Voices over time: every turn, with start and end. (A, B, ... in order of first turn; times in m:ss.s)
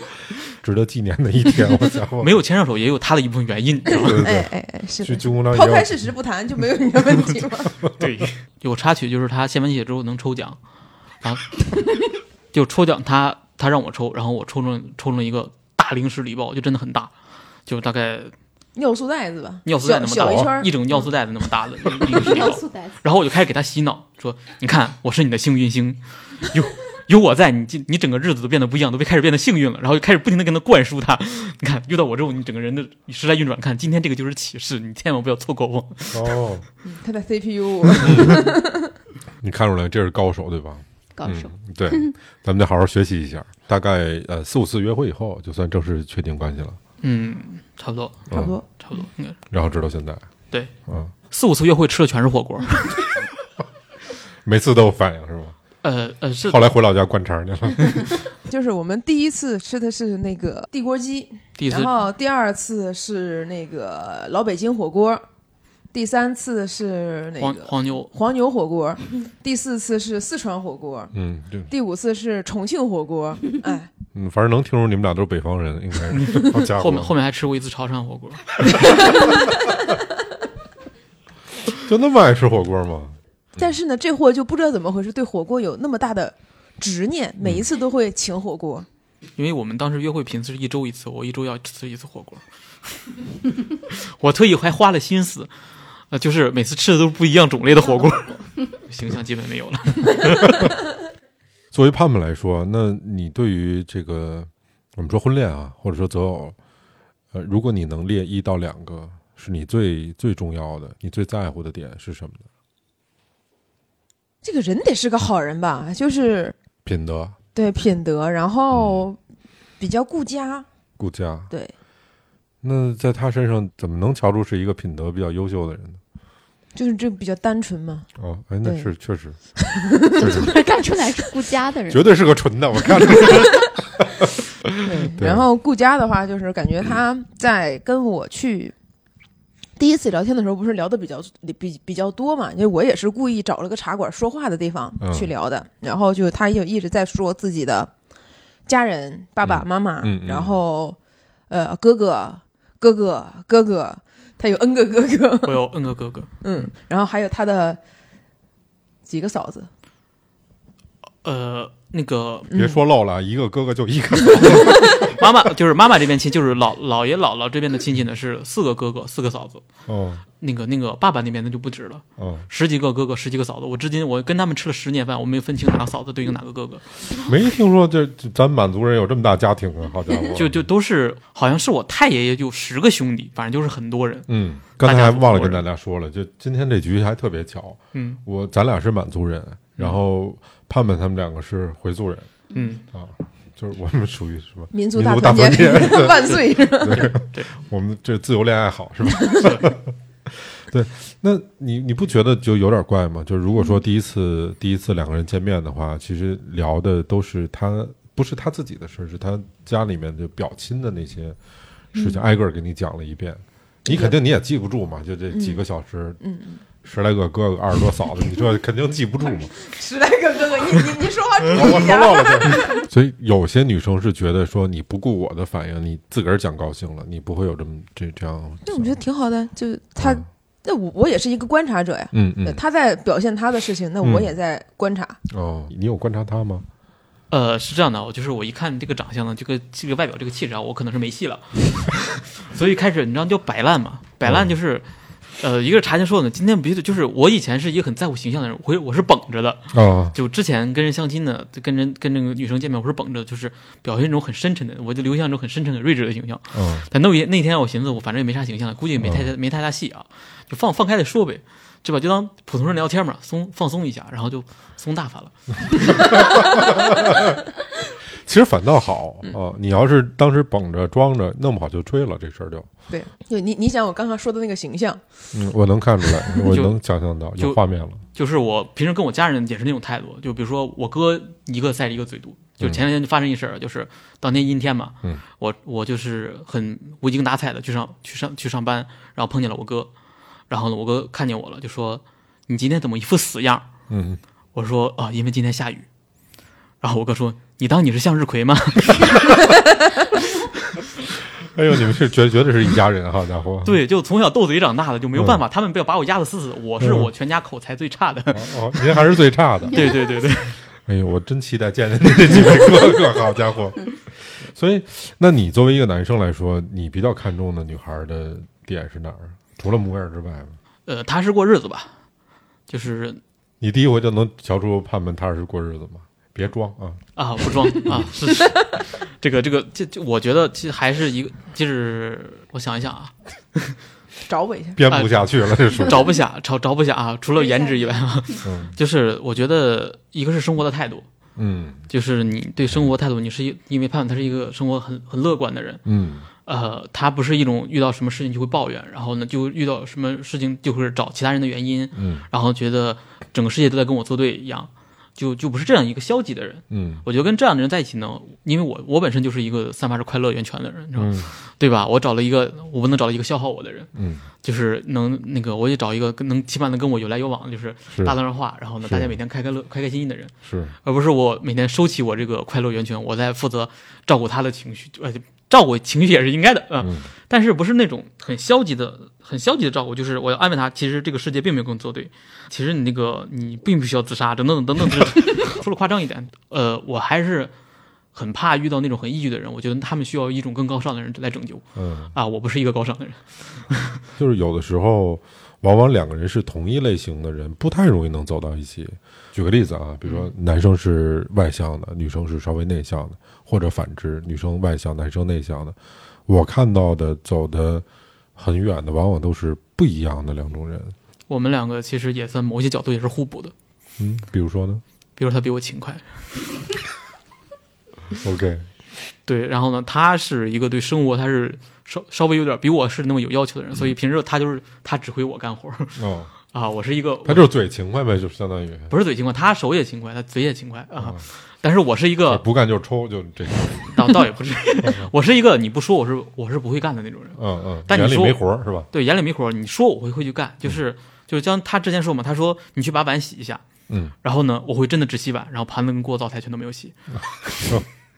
0:00.6-0:02.4 A
0:02.2-0:04.2 B
0:03.9-0:04.5 A
0:04.0-0:07.8 C
0:05.0-0:06.0 A
0:08.0-0:10.6 B
0:11.2-0:11.6 B
0:12.5-0:17.1 B
0:17.7-0:18.3 B
0:18.8-0:20.8 C
0:19.6-0:36.4 B
0:20.2-0:20.5 A
0:22.1-0:23.0 D
0:36.1-0:36.6 A
0:36.8-0:38.9 C
0:38.0-0:38.5 A
0:39.4-0:46.8 A
0:41.2-0:42.1 D
0:47.0-0:49.4 B
0:48.3-0:48.6 A
0:48.3-0:48.6 C
0:49.5-0:50.3 A
0:50.9-0:51.1 A
0:51.3-0:53.1 B
0:54.4-0:55.6 A
0:55.8-0:56.7 B
0:56.4-0:58.2 A
0:58.5-1:05.2 C
1:01.6-1:02.0 B
1:05.9-1:11.1 C
1:07.4-1:08.1 B
1:11.1-1:11.7 A
1:11.7-1:13.9 C
1:14.1-1:17.1 A
1:16.1-1:19.2 B
1:21.7-1:23.2 A
1:23.6-1:28.9 C
1:29.4-1:32.4 B
1:33.9-1:35.5 B
1:36.1-1:40.7 B
1:41.7-1:46.6 A
1:47.3-1:52.5 A
1:54.4-1:56.6 C
1:56.8-1:57.4 A
1:57.5-1:59.2 C
1:58.7-1:59.1 A
1:59.8-2:00.7 C
2:01.0-2:01.5 A
2:02.6-2:06.0 A
2:06.8-2:08.1 C
2:08.2-2:09.4 A
2:08.6-2:08.9 C
2:09.6-2:10.4 C
2:10.0-2:10.6 A
2:10.2-2:12.1 D
2:11.9-2:14.2 A
2:12.9-2:13.4 D
2:14.8-2:18.7 C
2:15.0-2:15.5 A
2:19.8-2:27.9 C
2:25.0-2:25.3 A
2:28.7-2:31.0 C
2:29.4-2:30.6 A
2:31.5-2:35.6 C
2:35.4-2:36.3 B
2:36.4-2:37.8 C
2:39.1-2:39.7 C
2:41.2-2:42.5 B
2:42.5-2:42.8 C
2:42.5-2:45.2 A
2:44.8-2:49.6 B
2:49.9-2:50.2 A
2:50.4-2:56.9 B
2:52.2-2:52.5 A
2:57.1-3:00.6 A
3:00.3-3:04.3 B
3:04.3-3:12.3 A
3:04.8-3:05.6 B
3:07.9-3:08.2 B
3:12.5-3:12.8 B
3:12.9-3:31.4 A
3:14.7-3:17.1 C
3:16.2-3:17.5 B
3:19.4-3:19.7 B
3:31.9-3:36.2 A
3:32.0-3:32.2 C
3:33.9-3:34.2 C
3:35.3-3:35.6 C
3:36.2-3:36.6 C
3:36.8-3:39.5 A
3:39.4-3:42.9 C
3:41.5-3:49.0 A
3:48.7-3:55.2 C
3:50.0-3:50.3 A
3:52.1-3:52.6 A
3:54.0-3:54.3 A
3:55.3-3:56.7 A
3:57.3-4:04.9 B
4:04.2-4:04.5 A
4:05.4-4:26.2 B
4:09.7-4:10.2 A
4:16.5-4:16.9 A
4:19.0-4:19.3 A
4:26.1-4:27.4 A
4:28.2-4:32.7 A
4:32.9-4:35.0 C
4:35.3-4:38.0 A
4:36.5-4:36.8 B
4:38.1-4:49.9 B
4:50.5-4:53.7 B
4:53.9-4:54.2 A
4:54.6-4:55.9 B
4:56.8-4:59.5 B
5:01.4-5:03.8 A
5:03.6-5:08.9 B
5:06.8-5:07.1 A
5:08.3-5:09.9 A
5:09.7-5:10.6 B
5:10.9-5:20.6 A
5:20.9-5:21.9 B
5:22.7-5:23.2 B
5:23.6-5:27.0 A
5:27.2-5:33.8 B
5:27.8-5:28.1 A
5:34.3-5:34.8 C
5:34.8-5:36.1 A
5:34.9-5:41.1 B
5:37.5-5:37.8 D
5:38.4-5:38.7 A
5:41.4-5:41.8 A
5:41.9-5:45.8 B
5:45.8-5:46.3 A
5:46.5-6:03.9 B
5:52.0-5:52.2 A
5:56.7-5:57.0 A
6:01.0-6:01.3 A
6:04.0-6:04.2 A
6:04.4-6:10.3 B
6:07.9-6:08.2 A
6:08.8-6:09.2 A
6:10.4-6:10.7 A
6:10.8-6:27.5 B
6:16.8-6:17.1 A
6:28.1-6:34.0 B
6:31.8-6:32.1 A
6:34.2-6:45.8 A
6:40.0-6:40.3 B
6:46.3-6:47.8 A
6:48.4-6:51.0 A
6:51.3-6:53.5 B
6:54.0-6:54.8 A
6:55.2-6:56.1 B
6:58.2-6:58.7 A
6:59.3-7:06.0 B
7:06.0-7:06.3 A
7:06.5-7:07.5 B
7:07.2-7:08.9 A
7:08.9-7:12.4 B
7:11.0-7:11.2 A
7:12.3-7:14.0 A
7:13.9-7:23.6 B
7:14.8-7:15.1 A
7:17.4-7:18.9 A
7:23.9-7:24.1 A
7:24.2-7:27.8 B